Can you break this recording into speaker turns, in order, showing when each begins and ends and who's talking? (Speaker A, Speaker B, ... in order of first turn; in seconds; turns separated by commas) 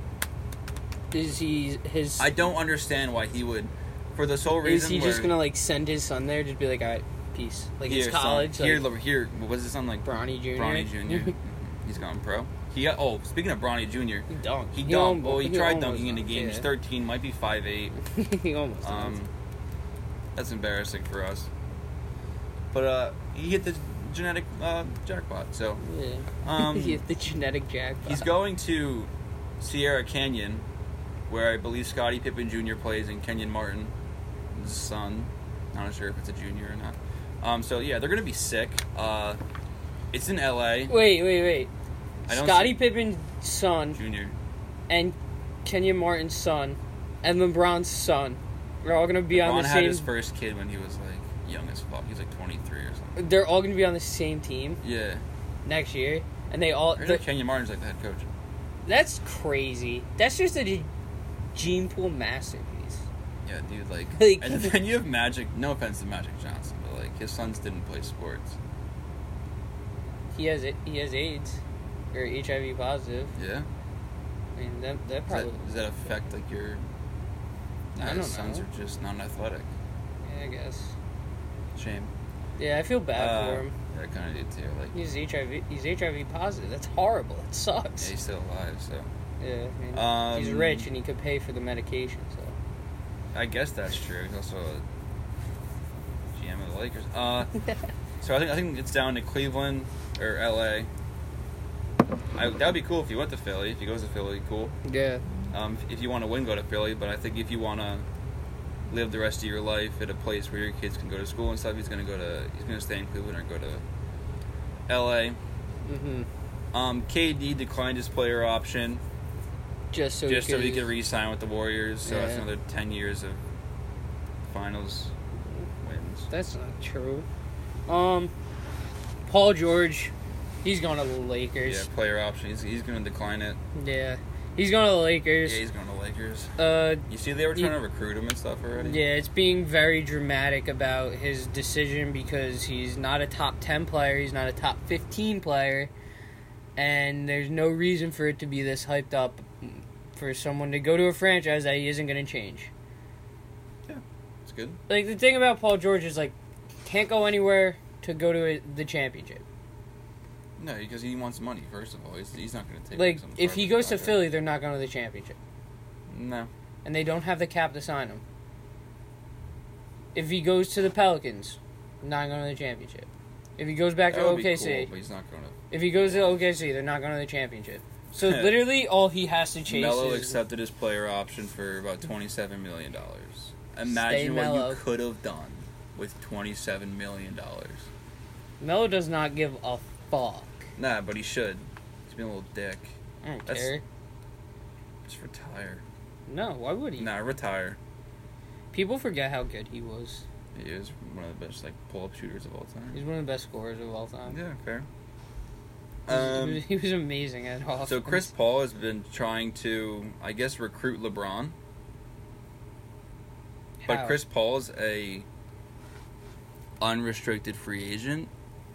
Speaker A: 1.1-2.4, Speaker B: 2.2-5.3, Speaker A: 4.6-8.8, Speaker B: 7.9-17.9, Speaker A: 10.1-11.3, Speaker A: 14.3-16.7, Speaker A: 18.0-19.1, Speaker B: 18.8-19.3, Speaker B: 20.3-21.5, Speaker B: 22.7-25.8, Speaker A: 25.8-28.3, Speaker B: 26.4-27.0, Speaker B: 28.0-30.6, Speaker B: 31.3-33.9, Speaker B: 34.5-39.4, Speaker B: 40.1-40.9, Speaker A: 40.9-41.7, Speaker B: 42.3-42.8, Speaker A: 42.3-44.0, Speaker B: 44.0-44.3, Speaker A: 44.9-50.1, Speaker B: 49.3-53.2, Speaker A: 53.1-54.8, Speaker B: 54.8-55.2, Speaker A: 55.6-57.2, Speaker B: 56.9-58.3, Speaker A: 58.9-60.9, Speaker A: 61.5-63.0, Speaker B: 63.4-68.6, Speaker A: 64.1-64.8, Speaker A: 70.3-71.6, Speaker A: 72.1-73.3, Speaker B: 73.3-73.7, Speaker A: 74.5-75.7, Speaker B: 75.3-76.8, Speaker B: 77.9-79.7, Speaker A: 78.0-78.7, Speaker A: 80.2-80.9, Speaker B: 81.7-82.1, Speaker A: 82.6-83.7, Speaker B: 83.1-84.9, Speaker A: 84.9-88.1, Speaker B: 88.0-89.1, Speaker A: 89.4-92.5, Speaker B: 89.9-90.9, Speaker B: 93.3-94.8, Speaker B: 96.3-97.5, Speaker B: 98.2-100.9, Speaker B: 102.3-104.7, Speaker A: 104.8-105.2, Speaker B: 105.5-108.0, Speaker B: 108.9-113.8, Speaker B: 114.9-115.4, Speaker A: 115.8-116.3, Speaker B: 116.7-119.0, Speaker A: 119.9-120.9, Speaker B: 120.3-123.4, Speaker A: 122.0-122.4, Speaker B: 124.5-125.1, Speaker B: 125.8-126.3, Speaker A: 126.3-127.3, Speaker A: 127.9-128.3, Speaker A: 129.3-130.1, Speaker A: 130.6-131.9, Speaker B: 131.6-133.6, Speaker A: 133.7-135.6, Speaker B: 135.4-136.5, Speaker A: 136.6-137.8, Speaker B: 137.1-139.0, Speaker A: 138.8-145.9, Speaker A: 146.8-152.7, Speaker B: 153.9-154.8, Speaker A: 154.9-159.4, Speaker B: 160.6-164.2, Speaker A: 162.9-165.3, Speaker B: 166.1-166.5, Speaker A: 166.8-168.2, Speaker A: 170.1-174.9, Speaker B: 174.1-176.4, Speaker A: 175.7-180.4, Speaker B: 178.1-178.6, Speaker B: 179.7-187.9, Speaker A: 183.9-184.8, Speaker A: 188.6-190.7, Speaker B: 190.8-192.9, Speaker A: 193.2-193.8, Speaker B: 193.5-193.7, Speaker B: 195.1-195.8, Speaker A: 196.3-197.1, Speaker B: 197.0-197.8, Speaker A: 198.7-200.2, Speaker B: 200.5-203.0, Speaker A: 202.9-204.4, Speaker B: 204.3-204.8, Speaker B: 206.0-206.6, Speaker A: 206.1-208.3, Speaker B: 207.8-211.6, Speaker A: 213.8-214.2, Speaker B: 213.9-215.3, Speaker B: 216.8-218.3